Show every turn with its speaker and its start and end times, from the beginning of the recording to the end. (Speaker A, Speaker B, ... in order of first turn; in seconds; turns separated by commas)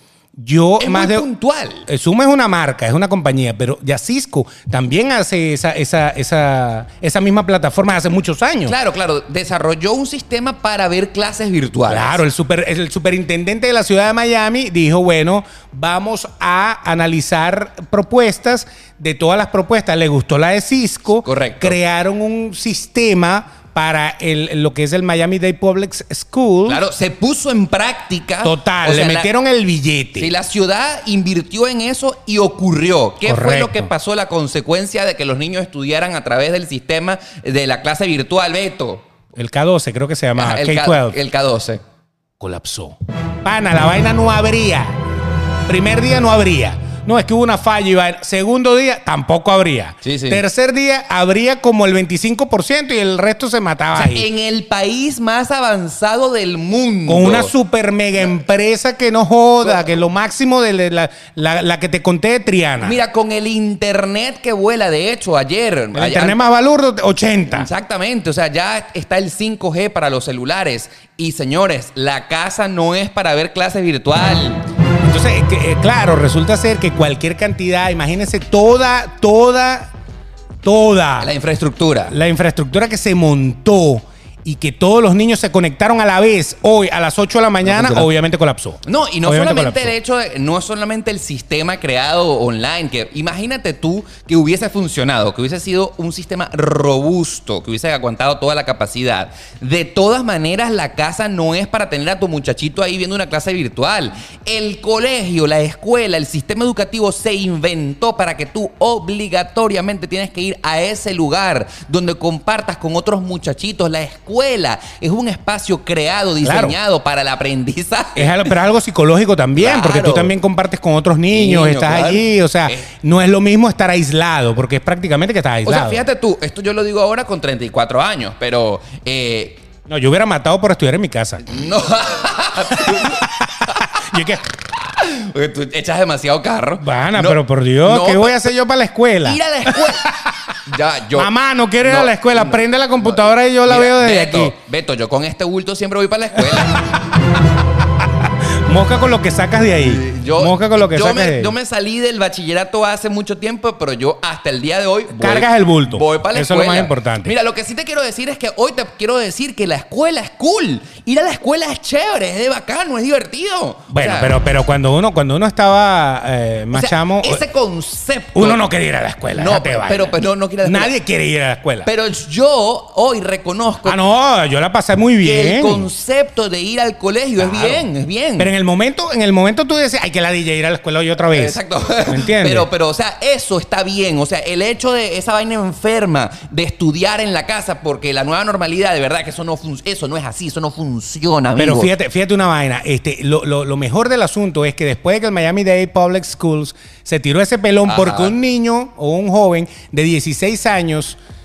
Speaker A: 0.4-1.2, Speaker B: 0.8-1.9, Speaker A: 1.9-8.7, Speaker B: 8.7-12.2, Speaker A: 11.9-26.8, Speaker B: 21.2-21.8, Speaker B: 26.6-29.3, Speaker A: 28.4-30.3, Speaker B: 30.2-39.0, Speaker A: 33.2-33.9, Speaker A: 39.3-41.2, Speaker B: 40.4-41.8, Speaker A: 42.4-45.0, Speaker A: 45.6-54.3, Speaker B: 50.0-50.4, Speaker B: 53.9-57.5, Speaker A: 57.1-63.0, Speaker B: 62.8-66.4, Speaker A: 65.9-67.7, Speaker B: 67.5-74.6, Speaker A: 75.0-79.9, Speaker A: 80.6-81.3, Speaker B: 81.2-82.1, Speaker A: 82.1-90.0, Speaker B: 87.6-88.1, Speaker B: 88.8-118.5, Speaker A: 116.4-116.8, Speaker A: 118.2-126.0, Speaker B: 119.5-120.3, Speaker B: 121.3-122.9, Speaker B: 125.7-129.6, Speaker A: 129.9-131.5, Speaker B: 131.4-134.2, Speaker A: 132.7-134.4, Speaker B: 134.8-138.5, Speaker A: 136.8-140.6, Speaker B: 139.2-140.1, Speaker B: 140.6-146.8, Speaker A: 141.1-144.5, Speaker A: 146.5-146.7, Speaker A: 148.2-151.5, Speaker B: 149.8-164.3, Speaker A: 155.2-157.3, Speaker A: 163.9-167.4, Speaker B: 166.7-168.6, Speaker A: 168.3-171.9, Speaker B: 169.3-170.9, Speaker B: 171.8-174.0, Speaker A: 173.8-175.9, Speaker B: 175.2-178.5, Speaker A: 177.4-182.7, Speaker B: 181.3-191.9, Speaker A: 191.6-201.2, Speaker B: 197.8-198.3